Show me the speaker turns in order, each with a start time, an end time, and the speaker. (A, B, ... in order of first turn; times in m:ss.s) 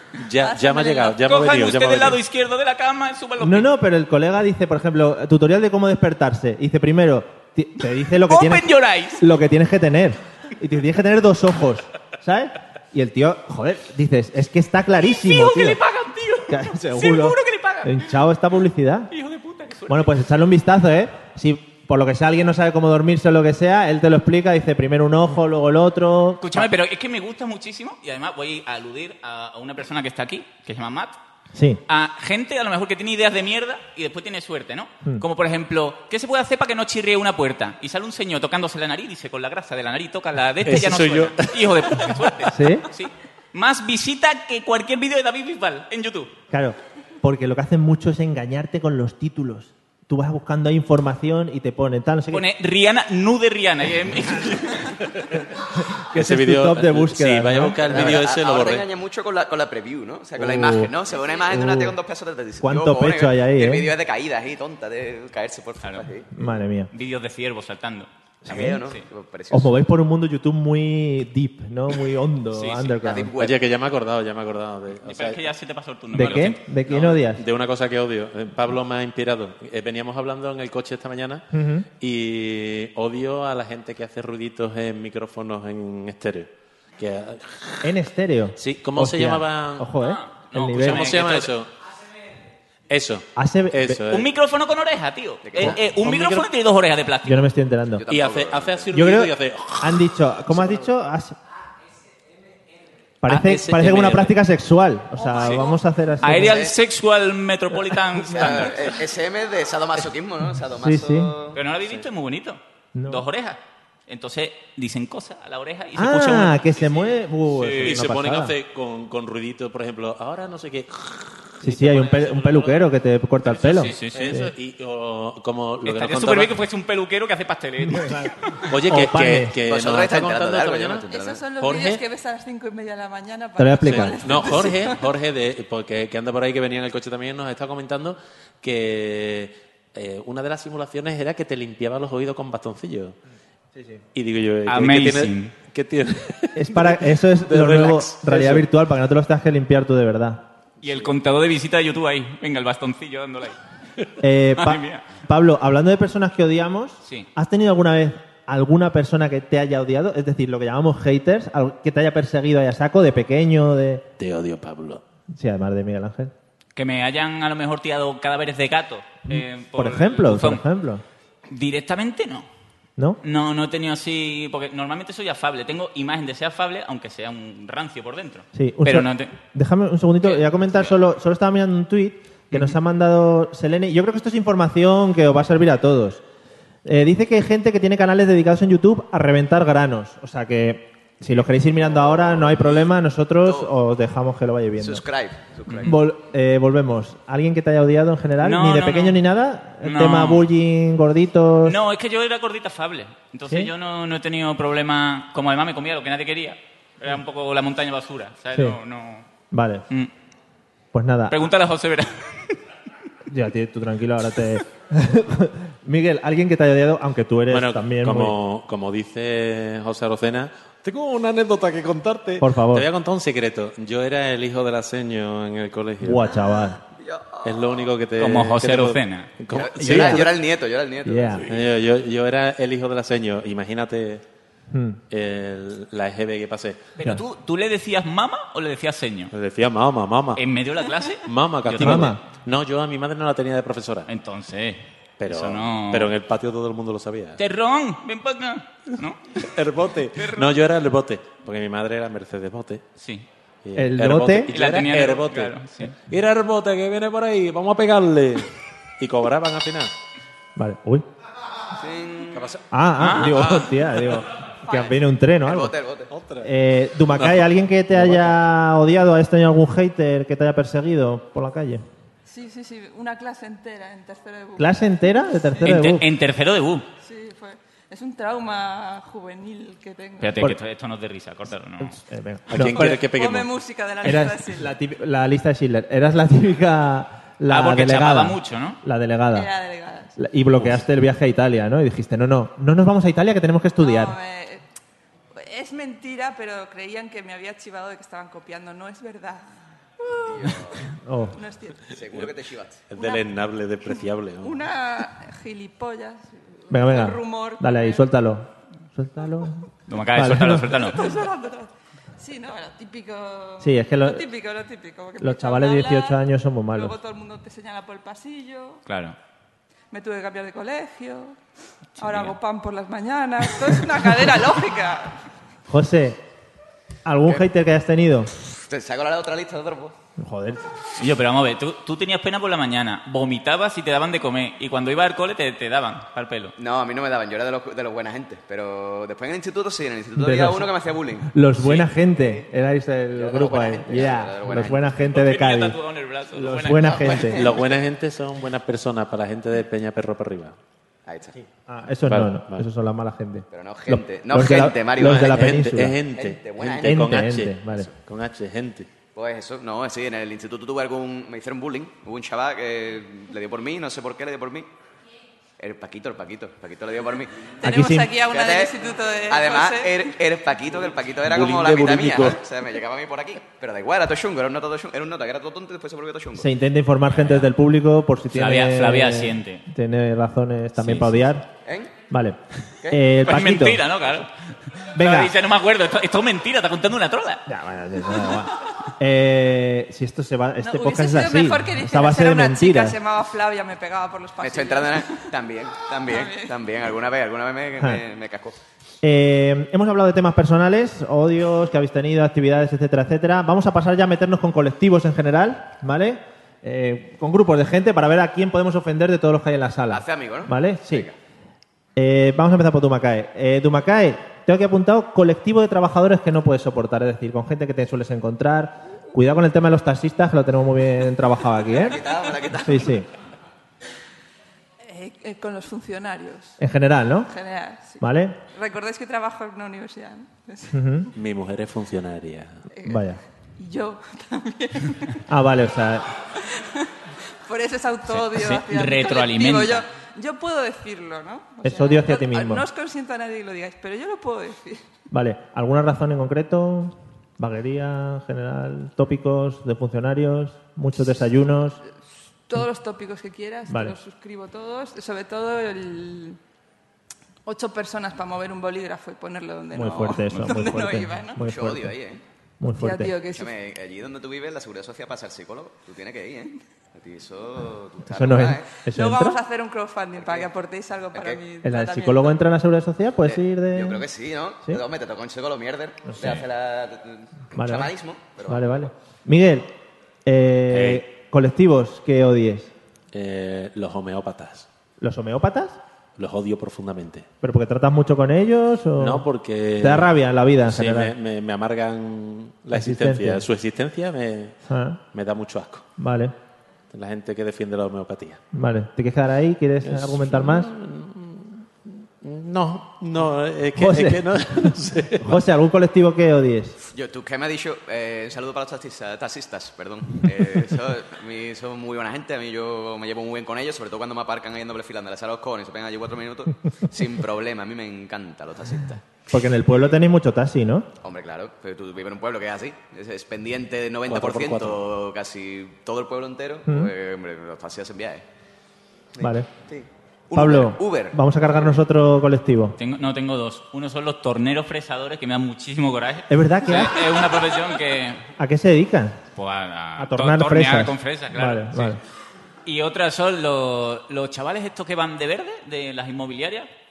0:00.2-0:02.2 A
0:00.4-0:01.2 B
0:01.2-0:03.7 C
0:03.4-0:15.8 D
0:08.3-0:09.2 C
0:15.0-0:18.1 C
0:16.5-0:19.1 D
0:19.1-0:20.1 C
0:19.9-0:26.7 D
0:26.4-0:31.2 C
0:31.5-0:31.8 D
0:31.9-0:46.3 C
0:40.6-0:42.5 A
0:42.5-0:42.9 D
0:46.5-0:52.4 D
0:52.3-0:55.0 C
0:56.1-0:58.2 D
0:56.1-0:58.8 A
0:57.8-1:06.3 E
1:00.4-1:00.9 D
1:01.4-1:02.0 D
1:02.6-1:03.9 D
1:06.3-1:06.9 D
1:06.9-1:08.1 C
1:08.4-1:08.8 D
1:08.4-1:09.7 E
1:09.5-1:13.3 D
1:12.5-1:12.9 C
1:13.0-1:13.6 E
1:13.4-1:15.4 A
1:15.0-1:16.6 C
1:16.1-1:17.4 D
1:16.2-1:21.5 A
1:21.5-1:21.9 D
1:22.0-1:27.9 A
1:27.8-1:31.2 D
1:28.6-1:29.9 A
1:30.0-1:31.5 C
1:30.6-1:31.7 A
1:32.9-1:34.3 A
1:33.3-1:34.0 D
1:34.1-1:37.4 C
1:35.4-1:35.8 E
1:35.6-1:36.4 A
1:37.2-1:38.0 D
1:37.9-1:39.0 E
1:38.1-1:40.1 A
1:38.9-1:41.4 D
1:43.2-1:46.7 D
1:43.3-1:44.3 A
1:43.3-1:44.2 C
1:45.4-1:45.7 C
1:46.2-1:48.9 C
1:46.3-1:46.7 E
1:48.2-1:51.6 E
1:50.7-1:51.3 D
1:51.5-1:58.0 C
1:52.9-1:53.2 D
1:55.9-1:58.5 D
1:57.6-2:02.8 A
2:01.6-2:04.5 D
2:03.4-2:06.6 A
2:03.8-2:04.3 C
2:05.8-2:08.6 C
2:07.8-2:09.5 D
2:08.7-2:11.0 A
2:09.6-2:11.4 E
2:11.1-2:15.0 B
2:11.6-2:12.0 A
2:13.6-2:14.4 D
2:13.8-2:23.2 A
2:23.7-2:24.0 D
2:24.1-2:28.7 A
2:24.7-2:25.5 C
2:26.5-2:30.4 D
2:30.8-2:33.6 C
2:30.8-2:31.1 A
2:34.2-2:44.0 D
2:34.6-2:35.0 C
2:44.2-2:45.0 A
2:45.3-2:46.3 D
2:46.8-2:50.6 C
2:49.3-2:51.0 D
2:51.5-2:52.5 C
2:53.2-2:59.3 C
2:58.5-3:06.2 D
3:06.8-3:15.0 D
3:13.4-3:13.7 E
3:14.8-3:15.9 E
3:15.7-3:16.0 C
3:15.8-3:21.8 D
3:18.4-3:19.2 C
3:19.8-3:20.5 C
3:21.6-3:29.3 C
3:29.5-3:29.8 D
3:30.9-3:31.4 D
3:31.3-3:32.6 C
3:33.3-3:38.4 D
3:37.5-3:46.2 A
3:42.4-3:42.9 D
3:46.0-3:46.8 D
3:47.0-3:47.9 E
3:47.4-3:50.3 A
3:48.2-3:49.3 C
3:49.5-3:51.5 E
3:49.8-3:50.3 D
3:51.0-3:51.5 D
3:51.4-3:54.2 A
3:54.7-3:55.0 D
3:55.1-3:56.9 A
3:57.0-3:59.3 C
3:59.3-4:00.4 A
4:00.4-4:02.1 C
4:01.2-4:04.1 A
4:01.8-4:02.2 D
4:04.1-4:06.1 C
4:05.2-4:07.4 A
4:07.4-4:09.2 C
4:09.4-4:12.8 A
4:10.2-4:10.4 C
4:13.0-4:13.2 C
4:13.6-4:19.9 A
4:13.8-4:14.6 D
4:14.5-4:15.9 C
4:20.6-4:21.0 D
4:21.8-4:22.4 E
4:22.3-4:24.2 A
4:22.7-4:25.7 D
4:23.0-4:23.4 C
4:24.6-4:25.0 B
4:25.4-4:26.1 E
4:26.1-4:26.5 A
4:26.4-4:31.8 D
4:27.1-4:28.3 A
4:32.3-4:35.8 B
4:34.6-4:36.1 D
4:35.6-4:36.8 C
4:37.0-4:40.4 B
4:40.2-4:42.0 C
4:41.8-4:43.1 D
4:42.5-4:43.5 A
4:42.7-4:44.7 B
4:44.0-4:49.5 D
4:47.5-4:48.8 C
4:49.3-4:50.2 B
4:50.2-4:54.1 D
4:53.8-4:54.6 B
4:55.3-4:59.4 B
5:00.0-5:00.6 B
5:00.2-5:00.8 E
5:01.0-5:01.4 D
5:01.3-5:01.9 B
5:01.9-5:02.8 E
5:02.9-5:04.6 A
5:02.9-5:03.2 B
5:03.9-5:08.1 B
5:06.7-5:10.7 D
5:09.9-5:11.0 C
5:10.7-5:18.8 B
5:13.6-5:14.2 D
5:15.2-5:17.0 D
5:18.8-5:19.2 C
5:19.9-5:21.4 B
5:22.0-5:25.2 B
5:22.0-5:22.3 C
5:25.7-5:26.2 D
5:27.0-5:28.3 D
5:28.6-5:29.9 E
5:30.2-5:30.6 D
5:31.0-5:36.5 C
5:36.6-5:41.3 E
5:40.2-5:40.7 D
5:41.2-5:45.8 D
5:41.6-5:41.9 C
5:43.1-5:44.8 E
5:45.1-5:47.3 C
5:46.3-5:47.4 D
5:46.9-5:47.8 E
5:47.3-5:50.6 A
5:51.0-5:51.4 E
5:51.4-5:56.0 D
5:52.0-5:52.6 A
5:53.5-5:57.1 E
5:55.0-5:58.9 A
5:56.8-5:57.9 D
5:59.1-6:04.7 E
6:05.6-6:07.5 E
6:07.6-6:10.0 B
6:07.6-6:08.1 D
6:08.3-6:08.7 E
6:09.3-6:16.5 E
6:11.3-6:12.4 A
6:16.4-6:21.5 D
6:18.3-6:19.6 C
6:20.8-6:21.1 A
6:21.6-6:21.9 E
6:22.1-6:22.4 D
6:22.9-6:23.8 D
6:23.2-6:27.4 C
6:24.9-6:25.3 D
6:27.5-6:33.0 D
6:30.6-6:35.3 B
6:34.4-6:38.6 E
6:36.1-6:36.5 B
6:39.0-6:51.1 D
6:49.9-6:51.1 E
6:52.0-7:03.1 D
7:01.8-7:02.9 E
7:04.8-7:06.6 B
7:06.6-7:07.3 D
7:07.2-7:10.7 B
7:08.0-7:08.4 D
7:10.7-7:11.1 D
7:11.1-7:12.6 A
7:12.7-7:13.0 B
7:12.8-7:13.2 D
7:13.6-7:15.2 B
7:15.3-7:16.1 D
7:16.4-7:16.9 B
7:17.4-7:24.8 B
7:18.1-7:19.8 C
7:21.6-7:22.6 D
7:25.1-7:31.8 D
7:32.5-7:36.4 B
7:33.7-7:34.0 D
7:37.4-7:41.4 B
7:39.7-7:42.0 D
7:41.4-7:42.2 E
7:42.6-7:43.1 D
7:42.8-7:43.5 B
7:43.3-7:48.7 E
7:48.0-7:49.4 D
7:48.8-7:52.4 B
7:50.2-7:50.5 E
7:51.1-7:51.4 E
7:51.6-7:54.0 D
7:53.2-7:58.9 E
7:56.1-7:56.4 D
7:57.5-7:57.9 D
7:58.4-7:59.7 D
8:00.2-8:02.7 D
8:00.7-8:01.0 A
8:03.1-8:04.7 A
8:05.0-8:05.8 D
8:06.2-8:07.3 A
8:07.4-8:09.3 D
8:09.0-8:10.1 A
8:09.8-8:11.1 D
8:10.7-8:14.6 A
8:12.7-8:13.4 D
8:14.7-8:15.0 D
8:15.1-8:15.8 A
8:16.0-8:16.3 D
8:16.9-8:18.4 A
8:18.5-8:20.7 D
8:19.8-8:25.3 A
8:23.8-8:26.8 D
8:26.9-8:39.3 E
8:39.3-8:40.9 D
8:41.0-8:48.2 E
8:44.1-8:44.8 A
8:49.2-8:51.2 E
8:49.2-8:49.5 D
8:50.3-8:52.8 D
8:52.8-8:58.2 C
8:56.3-8:57.0 D
8:58.4-8:59.2 D
8:59.4-9:02.0 C
9:00.0-9:02.0 D
9:02.6-9:06.7 C